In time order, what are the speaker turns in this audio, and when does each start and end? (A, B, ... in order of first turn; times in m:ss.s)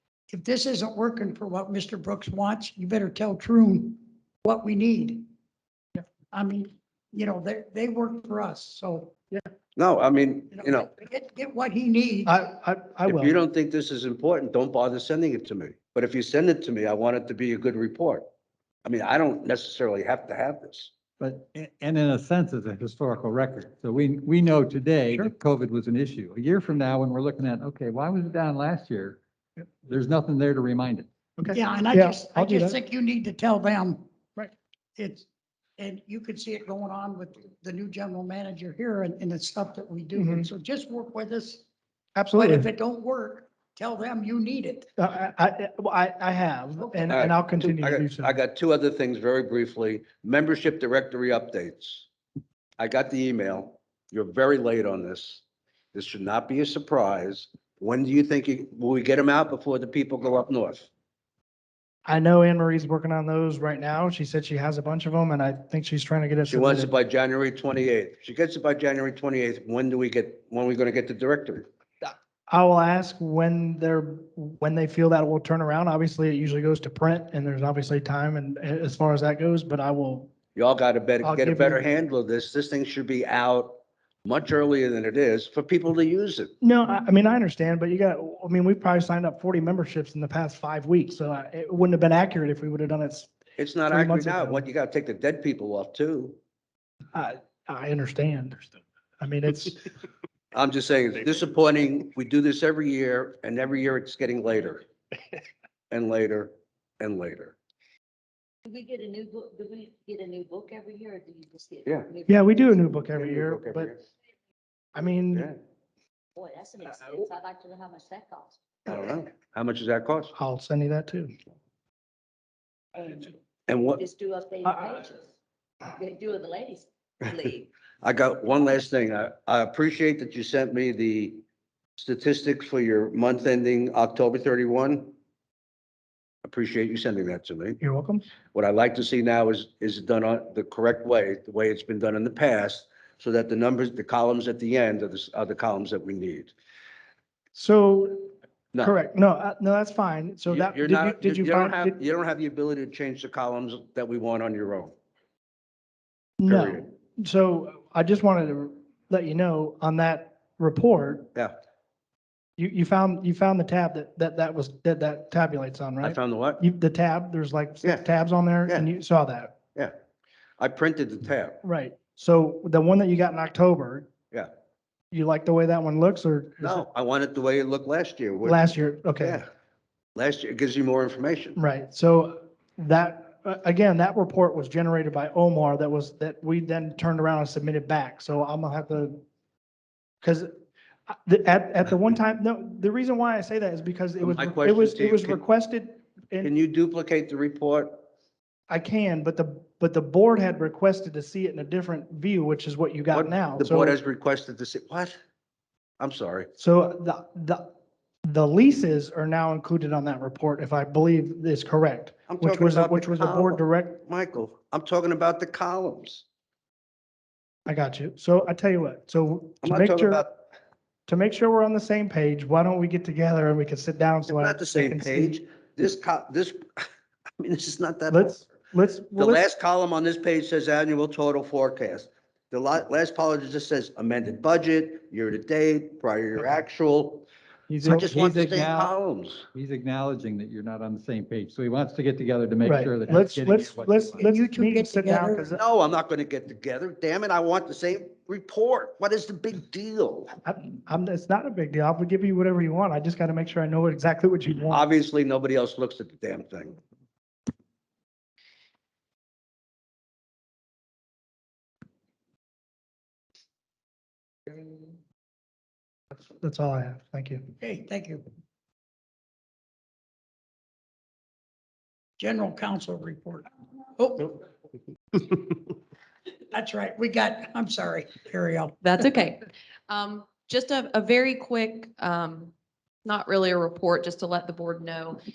0:00.3-0:05.3 A
0:06.3-0:09.2 A
0:09.8-0:10.9 B
0:10.5-0:12.4 A
0:12.3-0:13.4 C
0:13.1-0:18.3 B
0:18.8-0:20.9 B
0:21.2-0:29.2 D
0:29.9-0:31.1 D
0:31.4-0:32.8 C
0:31.5-0:34.0 A
0:35.0-0:35.3 A
0:35.8-0:41.6 A
0:40.2-0:40.5 C
0:42.2-0:42.7 C
0:42.4-0:44.9 A
0:45.0-0:48.3 C
0:47.1-0:52.1 B
0:52.8-1:00.9 B
1:02.0-1:06.9 C
1:06.5-1:11.7 B
1:12.5-1:20.3 C
1:20.6-1:26.5 B
1:21.2-1:21.8 C
1:26.6-1:33.4 C
1:33.6-1:36.4 B
1:33.9-1:34.6 C
1:37.1-1:38.6 C
1:39.2-1:39.8 C
1:40.5-1:44.9 B
1:45.9-1:47.6 B
1:48.7-1:52.2 E
1:51.8-1:52.1 B
1:52.3-1:53.9 C
1:53.2-1:54.0 B
1:55.0-1:55.5 C
1:55.3-1:55.6 B
1:56.4-1:58.6 E
1:58.9-2:00.3 B
2:00.4-2:01.3 C
2:03.7-2:04.0 B
2:04.0-2:05.1 E
2:04.7-2:05.0 C
2:06.0-2:07.6 E
2:08.0-2:11.4 B
2:12.0-2:15.1 B
2:16.4-2:17.8 B
2:17.8-2:18.3 C
2:18.5-2:26.5 B
2:27.6-2:28.3 C
2:28.8-2:32.0 C
2:30.5-2:34.9 B
2:36.4-2:41.3 C
2:36.5-2:36.9 B
2:42.6-2:49.6 C
2:46.0-2:46.6 B
2:50.6-2:51.6 B
2:51.6-2:54.1 C
2:55.1-2:56.8 C
2:56.6-2:58.7 B
2:58.4-2:59.4 C
2:59.2-2:59.5 B
3:00.2-3:01.6 B
3:01.6-3:09.2 C
3:10.2-3:10.5 C
3:11.1-3:16.5 C
3:14.2-3:15.4 B
3:16.4-3:18.0 B
3:18.7-3:24.0 C
3:23.1-3:25.2 B
3:26.0-3:26.5 B
3:26.6-3:27.7 C
3:28.3-3:34.0 C
3:32.3-3:36.2 B
3:37.7-3:40.2 C
3:39.6-3:40.3 B
3:41.1-3:45.4 C
3:44.3-3:46.8 B
3:47.4-3:48.4 B
3:48.1-3:49.4 C
3:49.2-3:57.3 B
3:57.7-3:59.0 D
3:57.8-3:58.1 C
3:57.8-3:59.5 B
3:59.5-4:04.2 D
4:02.6-4:05.6 C
4:04.2-4:05.4 A
4:05.6-4:10.3 B
4:10.4-4:14.8 C
4:14.7-4:16.8 B
4:26.3-4:27.5 C
4:27.6-4:28.2 A
4:32.2-4:34.4 A
4:36.5-4:38.8 A
4:38.8-4:42.5 F
4:43.0-4:45.2 F